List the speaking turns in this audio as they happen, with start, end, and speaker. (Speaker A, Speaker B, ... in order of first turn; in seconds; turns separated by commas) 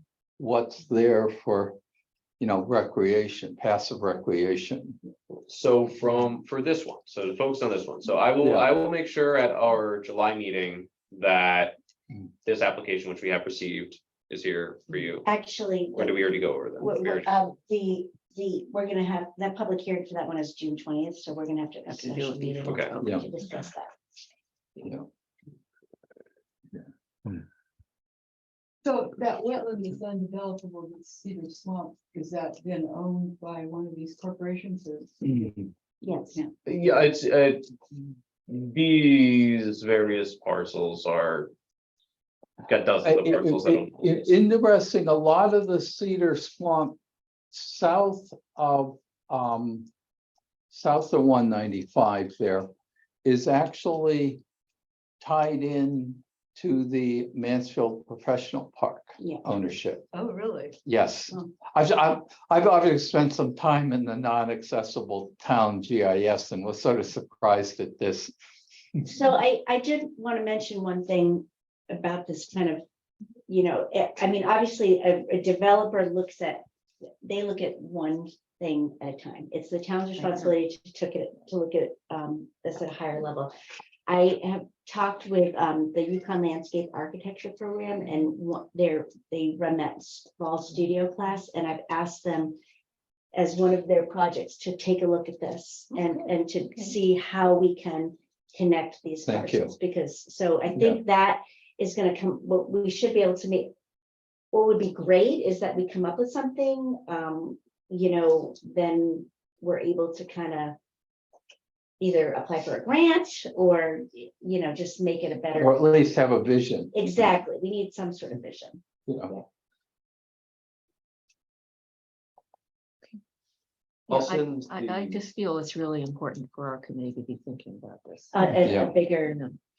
Speaker A: 0.4-1.8, Speaker A: 2.4-5.0, Speaker B: 5.5-11.8, Speaker A: 8.4-8.7, Speaker B: 12.4-15.2, Speaker C: 15.2-23.9, Speaker B: 15.9-17.3, Speaker D: 21.9-23.2, Speaker B: 22.6-22.9, Speaker A: 23.0-23.3, Speaker A: 24.8-25.1, Speaker A: 26.7-27.4, Speaker E: 28.8-35.5, Speaker A: 35.3-35.6, Speaker C: 36.0-36.4, Speaker B: 36.6-41.5, Speaker B: 42.6-44.3, Speaker A: 43.0-47.0, Speaker A: 47.5-49.9, Speaker A: 50.7-52.7, Speaker A: 53.2-54.4, Speaker A: 55.2-60.1, Speaker C: 59.2-59.4, Speaker E: 60.1-60.8, Speaker A: 60.8-68.3, Speaker C: 69.0-72.8, Speaker C: 73.5-76.6, Speaker C: 77.2-83.5, Speaker D: 80.2-80.5, Speaker C: 84.1-92.6, Speaker C: 93.3-103.7, Speaker D: 95.9-97.0, Speaker A: 99.3-99.7, Speaker A: 100.7-101.0, Speaker C: 104.5-110.8, Speaker C: 112.0-115.9, Speaker A: 115.5-117.3, Speaker C: 116.9-119.4, Speaker A: 119.1-119.3, Speaker B: 124.1-125.2, Speaker D: 124.1-129.6, Speaker C: 128.3-129.4, Speaker A: 128.6-128.9